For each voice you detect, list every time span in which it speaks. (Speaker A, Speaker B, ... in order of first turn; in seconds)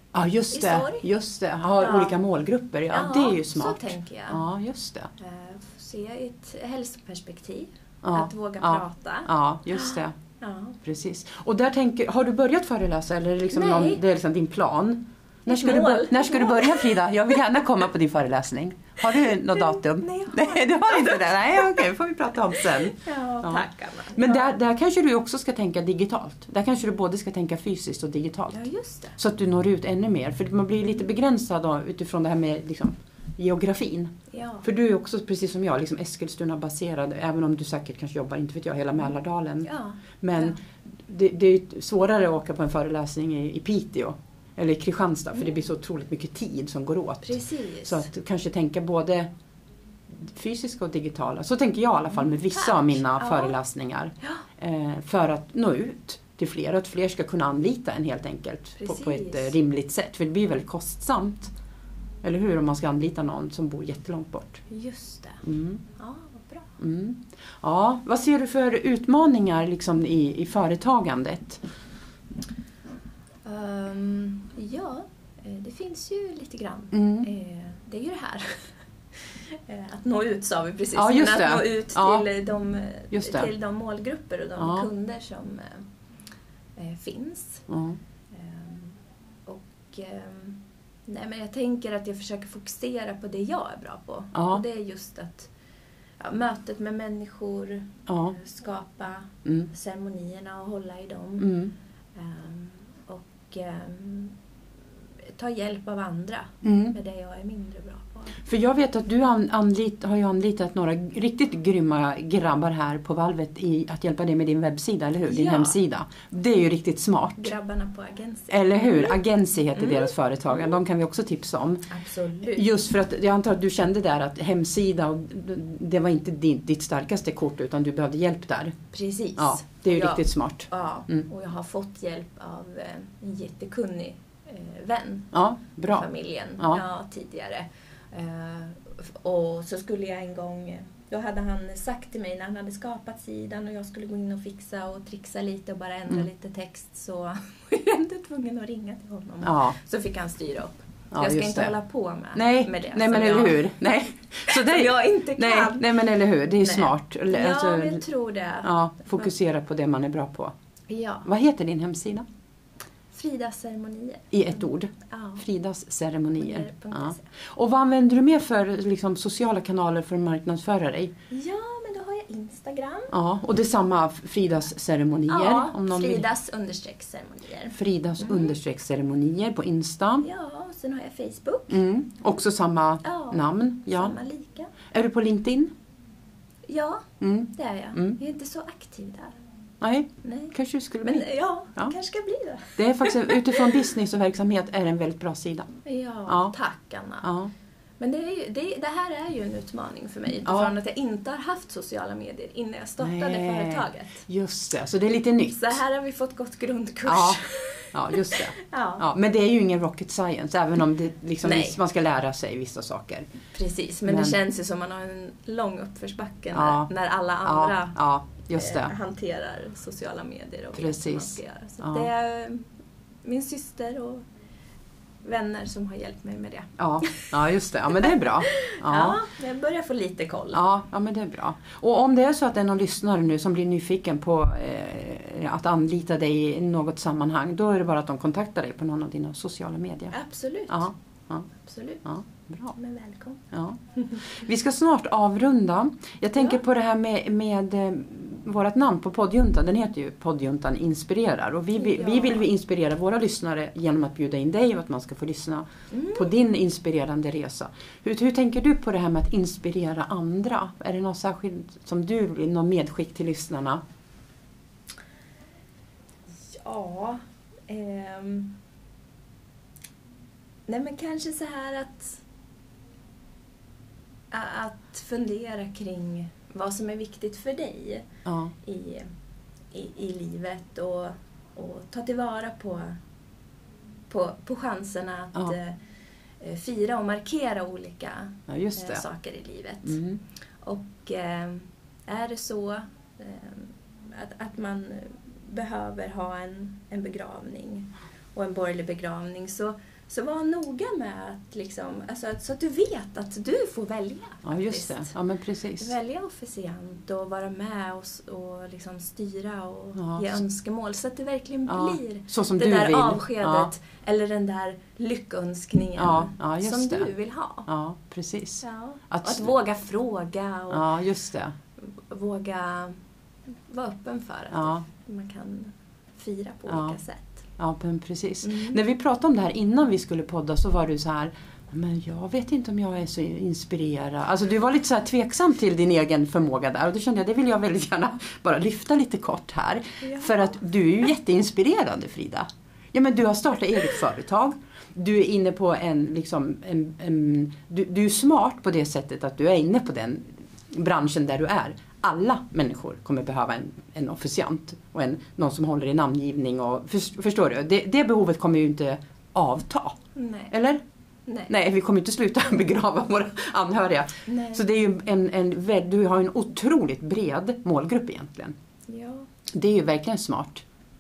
Speaker A: 0.1-5.1, 8.0-10.2, 10.8-28.6, 29.2-39.7, 40.2-49.3, 50.1-61.5, 62.2-64.6, 65.4-65.8, 66.8-71.6, 76.9-77.3, 81.0-82.3, 83.1-83.5, 84.6-84.9, 87.7-88.0, 94.3-94.6, 98.1-98.4, 101.4-101.7, 106.6-107.0, 108.5-117.5, 118.5-121.9, 122.5-128.8, 129.4-131.2, 135.3-136.1, 149.4-149.8, 151.1-151.8, 152.3-158.0, 158.6-160.5, 161.2-162.2, 164.3-171.1, 173.1-176.2, 177.7-180.3, 181.7-184.2, 184.9-185.7, 187.2-188.2, 189.8-191.9, 192.8-195.7, 196.3-196.5, 197.2-197.5, 200.5-200.7, 203.0-205.8, 207.1-207.4, 207.9-213.3, 214.1-214.4, 216.5-216.9, 217.4-218.9, 220.8-222.1, 226.8-229.2, 230.5-240.1, 240.7-241.5, 242.1-242.8, 243.5-263.8, 278.3-278.5, 288.5-289.0, 289.9-290.2, 304.4-305.9, 310.0-310.4, 311.7-313.7, 316.0-317.1, 317.7-319.5, 320.7-321.6, 324.5-324.8, 326.7-327.0, 327.6-360.0, 360.5-360.8, 361.5-368.5, 369.5-370.6
Speaker B: 0.5-1.1, 1.8-2.2, 2.9-4.4, 5.2-10.8, 13.5-14.0, 15.5-17.4, 19.5-21.9, 22.5-24.5, 28.5-29.2, 34.3-34.7, 39.6-40.6, 47.2-48.1, 52.5-53.6, 58.8-59.6, 64.7-65.4, 66.0-66.8, 73.5-78.7, 79.3-85.8, 86.8-87.7, 88.3-88.9, 89.5-95.5, 96.2-101.5, 102.2-104.4, 105.3-108.4, 115.3-115.8, 117.4-119.2, 119.7-120.7, 121.9-122.7, 128.9-135.3, 135.9-153.7, 154.5-159.3, 160.9-161.3, 163.1-165.4, 166.4-167.3, 171.3-173.2, 175.3-178.6, 180.2-181.8, 183.0-184.7, 186.7-189.4, 190.2-193.9, 195.8-197.3, 198.0-204.2, 205.5-209.1, 211.4-211.8, 213.5-218.0, 218.5-222.7, 223.2-224.2, 225.2-227.3, 227.9-230.6, 240.1-240.9, 241.5-242.1, 242.7-243.4, 251.8-252.5, 255.9-256.3, 266.4-268.6, 270.7-272.2, 274.3-278.1, 278.6-279.1, 279.7-283.0, 284.1-285.8, 286.4-290.0, 290.6-305.1, 305.8-317.7, 318.6-320.9, 321.8-323.0, 323.7-327.4, 328.4-328.8, 340.0-340.5, 360.1-360.5, 364.3-364.6, 368.9-369.3